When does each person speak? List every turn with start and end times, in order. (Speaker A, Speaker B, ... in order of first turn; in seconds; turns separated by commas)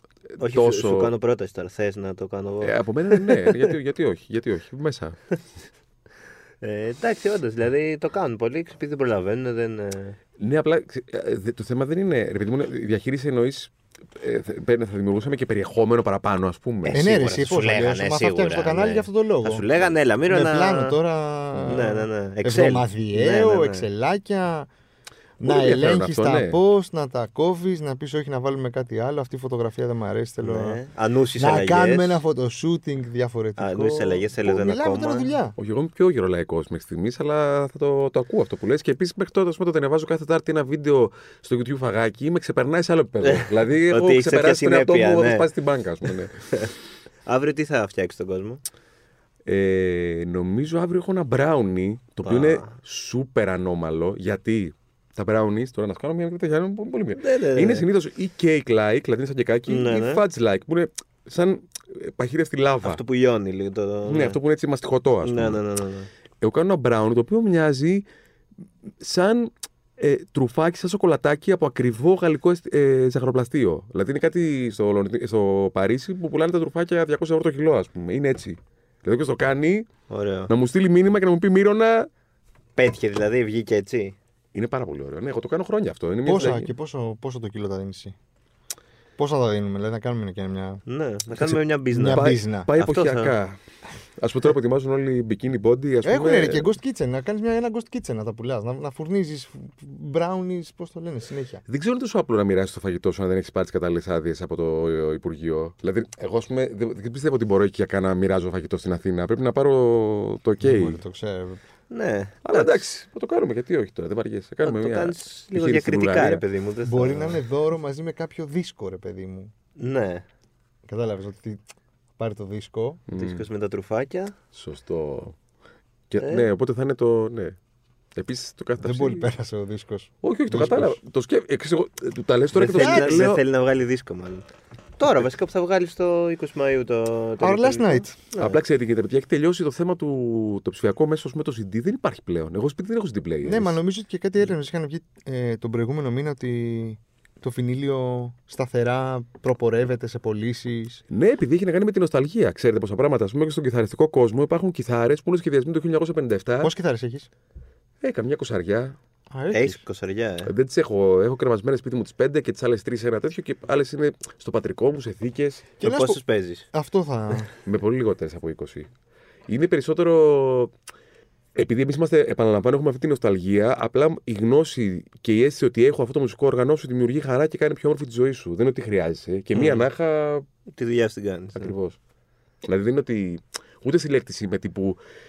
Speaker A: 0.4-1.1, Speaker B: 0.4-3.7, Speaker A: 2.6-5.2, Speaker B: 6.6-10.2, Speaker A: 10.4-17.1, Speaker B: 16.8-21.0, Speaker C: 16.9-19.6, Speaker C: 20.3-24.7, Speaker B: 21.6-23.9, Speaker C: 25.4-30.8, Speaker A: 25.4-26.6, Speaker B: 30.4-32.2, Speaker C: 31.4-35.5, Speaker B: 33.6-35.3, Speaker A: 35.6-46.3, Speaker B: 43.2-45.5, Speaker B: 47.2-48.6, Speaker A: 49.5-63.0, Speaker B: 52.2-52.7, Speaker B: 57.2-57.9, Speaker B: 59.7-60.2, Speaker B: 62.8-64.4, Speaker A: 64.0-65.6, Speaker B: 65.2-66.1, Speaker A: 66.4-68.0, Speaker A: 69.0-79.9, Speaker B: 80.1-80.5, Speaker A: 80.5-82.1, Speaker B: 82.8-84.2, Speaker A: 84.5-86.7, Speaker C: 86.2-88.1, Speaker C: 89.2-90.8, Speaker B: 90.9-93.3, Speaker C: 91.9-92.7, Speaker A: 92.1-93.6, Speaker A: 94.2-96.7, Speaker C: 96.0-101.6, Speaker A: 101.7-111.0, Speaker C: 110.6-111.6, Speaker B: 111.9-112.8, Speaker A: 112.4-116.4, Speaker B: 114.6-117.4, Speaker C: 116.8-119.5, Speaker B: 119.8-120.2, Speaker C: 120.9-121.6, Speaker C: 122.2-123.0, Speaker A: 123.1-123.4, Speaker B: 123.1-124.3, Speaker A: 124.5-125.3, Speaker A: 126.1-127.5, Speaker B: 126.2-126.5, Speaker A: 128.2-129.3, Speaker C: 128.8-131.0, Speaker A: 130.2-133.4, Speaker B: 132.5-134.5, Speaker C: 132.8-133.2, Speaker B: 135.0-138.6, Speaker C: 137.4-138.2, Speaker A: 138.4-143.8, Speaker C: 143.4-151.0, Speaker A: 151.1-156.7, Speaker C: 156.6-157.3, Speaker A: 158.0-159.0, Speaker C: 159.3-159.8, Speaker B: 159.5-160.5, Speaker A: 160.4-165.7, Speaker C: 165.8-166.2, Speaker B: 165.8-166.7, Speaker C: 166.7-167.5, Speaker A: 167.6-168.9, Speaker A: 169.5-170.7, Speaker A: 171.6-180.4, Speaker B: 179.5-179.8, Speaker B: 180.7-181.7, Speaker A: 181.6-182.0, Speaker A: 182.6-185.0